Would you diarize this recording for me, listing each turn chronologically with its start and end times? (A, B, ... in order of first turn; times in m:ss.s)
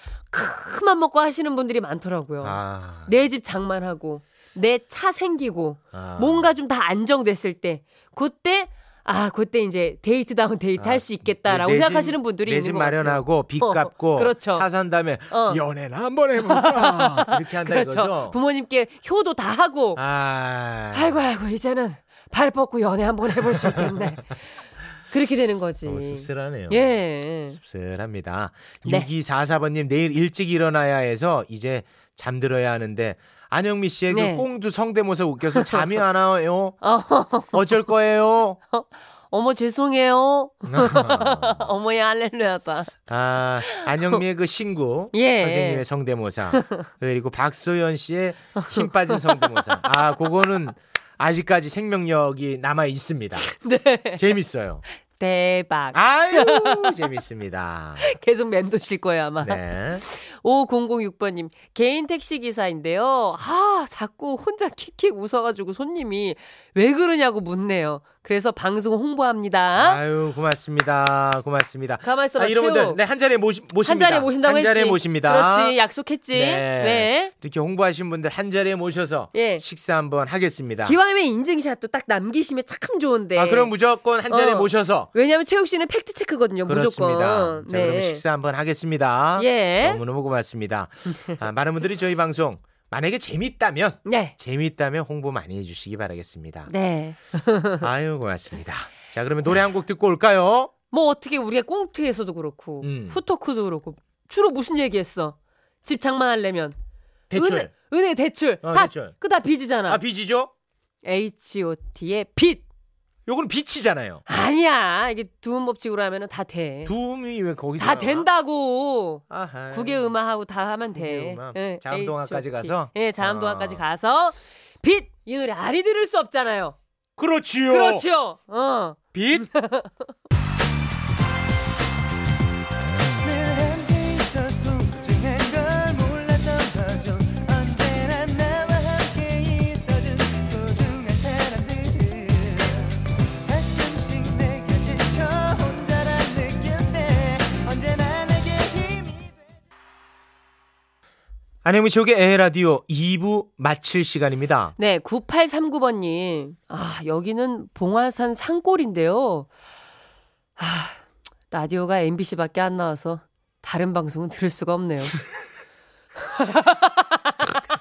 0:00.3-0:14.6 A
0:02.4-0:03.1 B
0:05.9-0:06.5 B
0:10.8-0:18.4 B
0:15.3-0:15.6 A
0:16.4-0:20.0 A
0:20.0-0:21.2 B
0:20.9-0:24.4 A
0:23.4-0:24.2 B
0:25.1-0:27.6 A
0:25.8-0:36.8 B
0:34.1-0:34.5 A
0:35.5-0:36.0 A
0:36.8-0:37.8 A
0:37.5-0:38.6 B
0:38.7-0:42.9 A
0:40.7-0:41.7 B
0:43.1-0:53.5 B
0:43.6-0:44.2 A
0:45.1-0:45.8 A
0:46.5-0:46.9 A
0:48.6-0:49.9 A
0:53.5-0:54.2 A
0:54.2-0:54.8 B
0:55.2-0:57.0 A
0:55.9-0:58.1 B
0:58.0-1:10.0 A
0:59.4-1:00.0 B
1:09.7-1:15.8 B
1:12.0-1:13.0 A
1:13.8-1:17.3 A
1:16.3-1:21.0 B
1:19.3-1:19.6 A
1:20.8-1:23.7 A
1:23.3-1:25.1 B
1:24.3-1:28.2 A
1:26.6-1:36.7 B
1:29.4-1:30.0 A
1:34.0-1:34.4 A
1:36.7-1:37.9 A
1:37.8-1:40.7 B
1:40.9-1:46.8 A
1:42.8-1:43.2 B
1:47.3-1:47.7 B
1:47.3-1:50.0 A
1:48.6-1:49.1 B
1:49.9-1:50.5 B
1:51.0-1:52.6 A
1:53.3-1:54.2 B
1:54.3-1:56.9 A
1:56.8-1:58.3 B
1:57.8-2:06.8 A
1:59.3-2:00.1 B
2:00.9-2:03.8 B
2:07.2-2:08.0 B
2:07.7-2:10.1 A
2:09.1-2:09.5 B
2:13.2-2:29.3 C
2:31.6-2:34.7 B
2:34.8-2:39.5 A
2:40.6-2:45.2 A
2:46.3-2:47.4 A